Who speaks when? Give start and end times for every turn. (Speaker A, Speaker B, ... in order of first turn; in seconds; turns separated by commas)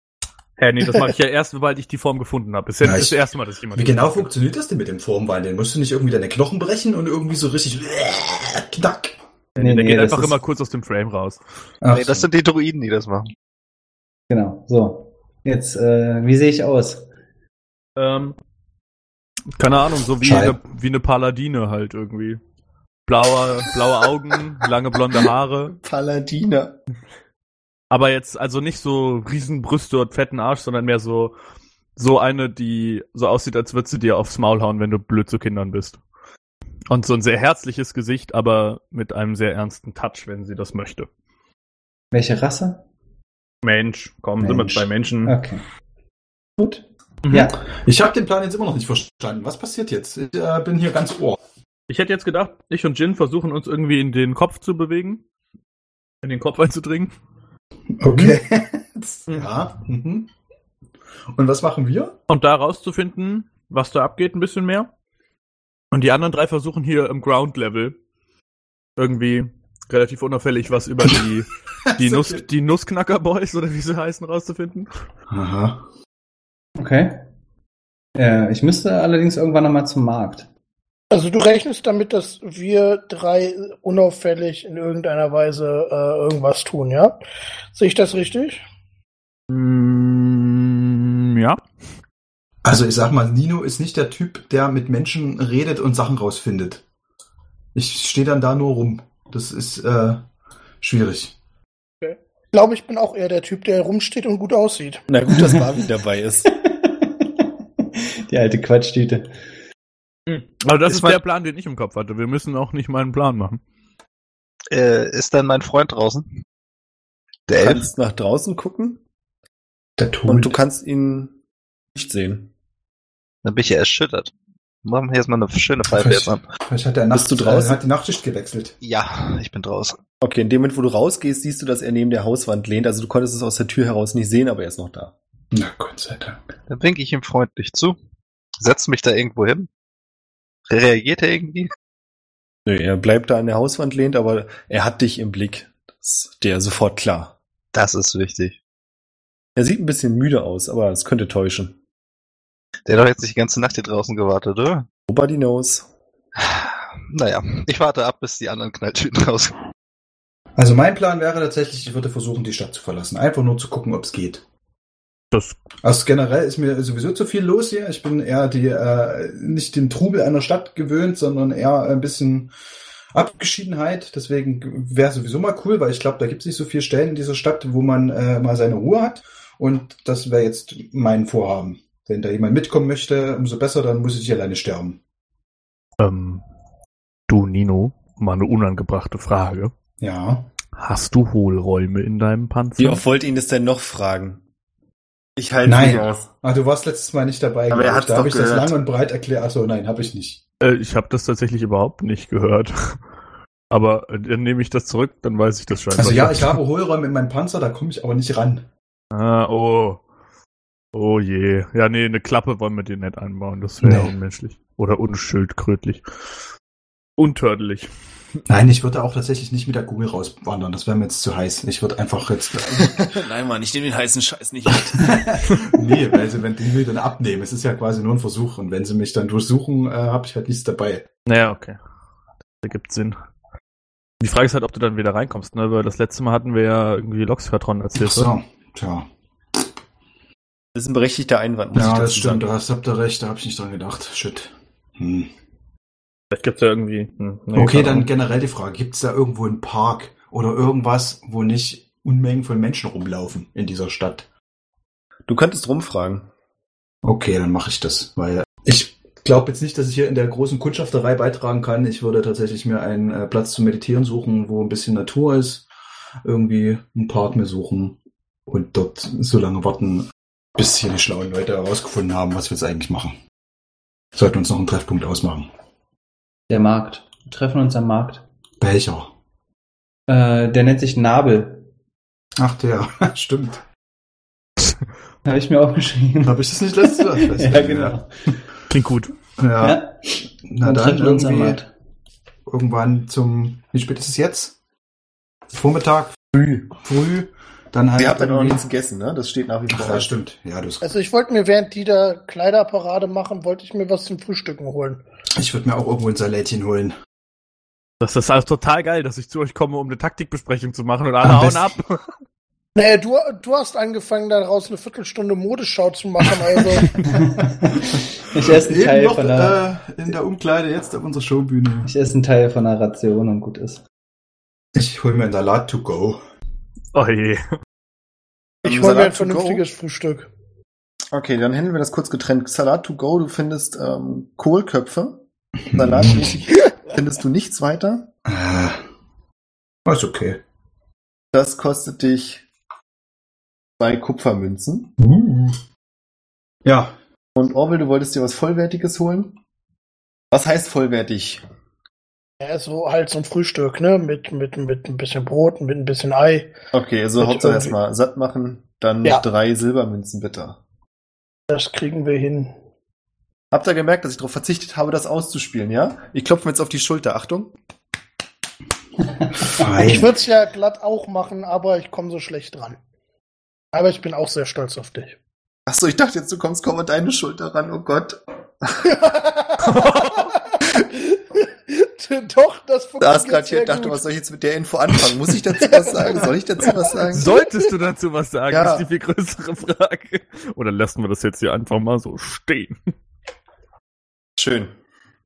Speaker A: 0.6-4.3, Speaker B: 2.8-9.2, Speaker A: 9.6-11.4, Speaker C: 9.6-10.4, Speaker B: 11.8-12.3, Speaker D: 11.9-13.3, Speaker C: 14.3-17.1, Speaker A: 18.0-18.4, Speaker A: 19.6-22.4, Speaker B: 20.2-20.6, Speaker A: 23.1-25.7, Speaker E: 25.7-26.8, Speaker A: 27.9-31.3, Speaker A: 31.9-36.0, Speaker A: 36.9-41.1, Speaker C: 42.1-42.8, Speaker A: 43.6-45.4, Speaker C: 44.4-45.6, Speaker C: 46.6-47.6, Speaker A: 47.2-47.5, Speaker B: 47.7-51.4, Speaker A: 51.9-55.2, Speaker A: 56.2-57.1, Speaker B: 58.0-60.3, Speaker A: 58.1-58.3, Speaker B: 61.3-62.2, Speaker A: 62.3-64.9, Speaker A: 65.9-68.0, Speaker A: 69.0-74.9, Speaker B: 72.0-72.4, Speaker B: 75.3-75.8, Speaker C: 76.8-77.2, Speaker C: 78.1-80.5, Speaker F: 81.1-87.2, Speaker F: 87.7-88.6, Speaker A: 89.5-91.6, Speaker B: 92.6-96.8, Speaker B: 97.7-100.2, Speaker B: 100.8-101.4, Speaker F: 102.0-105.0, Speaker E: 105.1-106.5, Speaker C: 105.3-105.7, Speaker C: 106.5-109.3, Speaker A: 110.3-113.6, Speaker D: 110.9-111.2, Speaker D: 114.7-116.3, Speaker D: 117.5-117.8, Speaker E: 117.6-119.0, Speaker B: 120.0-120.6, Speaker E: 120.2-121.3, Speaker E: 121.9-122.5, Speaker D: 123.4-124.3, Speaker D: 124.8-126.5, Speaker B: 125.8-128.7, Speaker E: 127.1-127.8, Speaker D: 128.8-130.0, Speaker E: 130.2-135.1, Speaker B: 135.5-136.4, Speaker D: 136.7-137.9, Speaker D: 138.6-139.7, Speaker D: 140.7-141.7, Speaker E: 142.7-147.3, Speaker D: 147.7-148.6, Speaker E: 149.6-151.8, Speaker D: 152.8-154.8, Speaker E: 155.1-155.9, Speaker D: 156.4-159.6, Speaker B: 160.6-164.4, Speaker A: 165.3-165.6, Speaker B: 165.8-172.5, Speaker B: 173.1-185.0, Speaker A: 186.0-186.4, Speaker A: 187.3-189.7, Speaker B: 190.0-190.5, Speaker A: 190.7-193.0, Speaker E: 192.8-194.4, Speaker E: 195.3-196.3, Speaker B: 195.6-200.4, Speaker E: 197.7-198.7, Speaker A: 200.6-203.0, Speaker A: 203.7-206.6, Speaker B: 205.9-208.7, Speaker A: 209.1-210.0, Speaker A: 210.9-216.0, Speaker B: 213.8-214.1, Speaker A: 217.2-217.9, Speaker B: 218.5-223.0, Speaker E: 222.7-225.2, Speaker B: 224.9-231.1, Speaker A: 231.2-231.8, Speaker A: 232.6-233.2, Speaker A: 234.2-238.3, Speaker B: 238.0-239.6, Speaker E: 240.7-242.5, Speaker B: 241.7-245.3, Speaker A: 246.3-248.1, Speaker B: 247.5-254.3, Speaker E: 255.3-256.3, Speaker B: 257.0-265.6, Speaker B: 266.2-273.1, Speaker B: 274.1-275.5, Speaker C: 276.5-278.2, Speaker B: 278.6-279.1, Speaker C: 280.1-281.7, Speaker B: 282.4-283.6, Speaker C: 285.2-288.4, Speaker B: 286.2-288.0, Speaker A: 288.7-289.1, Speaker B: 289.4-289.9, Speaker C: 289.6-291.7, Speaker B: 290.4-291.6, Speaker B: 292.4-294.5, Speaker B: 295.5-296.1, Speaker E: 296.3-296.7, Speaker B: 296.8-298.6, Speaker E: 298.0-300.1, Speaker B: 299.7-300.9, Speaker F: 300.8-305.0, Speaker B: 305.4-306.9, Speaker A: 308.0-312.0, Speaker B: 311.2-311.6, Speaker F: 312.7-316.9, Speaker C: 317.1-319.6, Speaker B: 318.4-321.9, Speaker C: 321.8-323.8, Speaker B: 324.7-326.2, Speaker A: 326.9-327.4, Speaker F: 328.6-330.3, Speaker E: 328.6-329.6, Speaker E: 331.1-335.2, Speaker B: 335.7-336.4, Speaker E: 335.7-338.1, Speaker B: 338.2-338.8, Speaker B: 339.9-340.4, Speaker E: 341.3-342.4, Speaker E: 343.8-344.9, Speaker B: 345.0-345.6, Speaker B: 346.6-346.9, Speaker E: 347.3-349.4, Speaker E: 350.3-351.4, Speaker F: 352.4-356.5, Speaker E: 356.7-360.6, Speaker F: 357.2-357.7, Speaker F: 361.5-362.5, Speaker E: 363.5-367.5, Speaker B: 369.4-370.1, Speaker F: 369.8-372.8, Speaker F: 373.7-375.2, Speaker E: 375.7-378.7, Speaker F: 378.8-384.0, Speaker A: 379.6-380.3, Speaker E: 383.0-387.3, Speaker F: 385.6-387.4, Speaker A: 387.1-392.8, Speaker E: 388.5-388.9, Speaker E: 394.4-394.7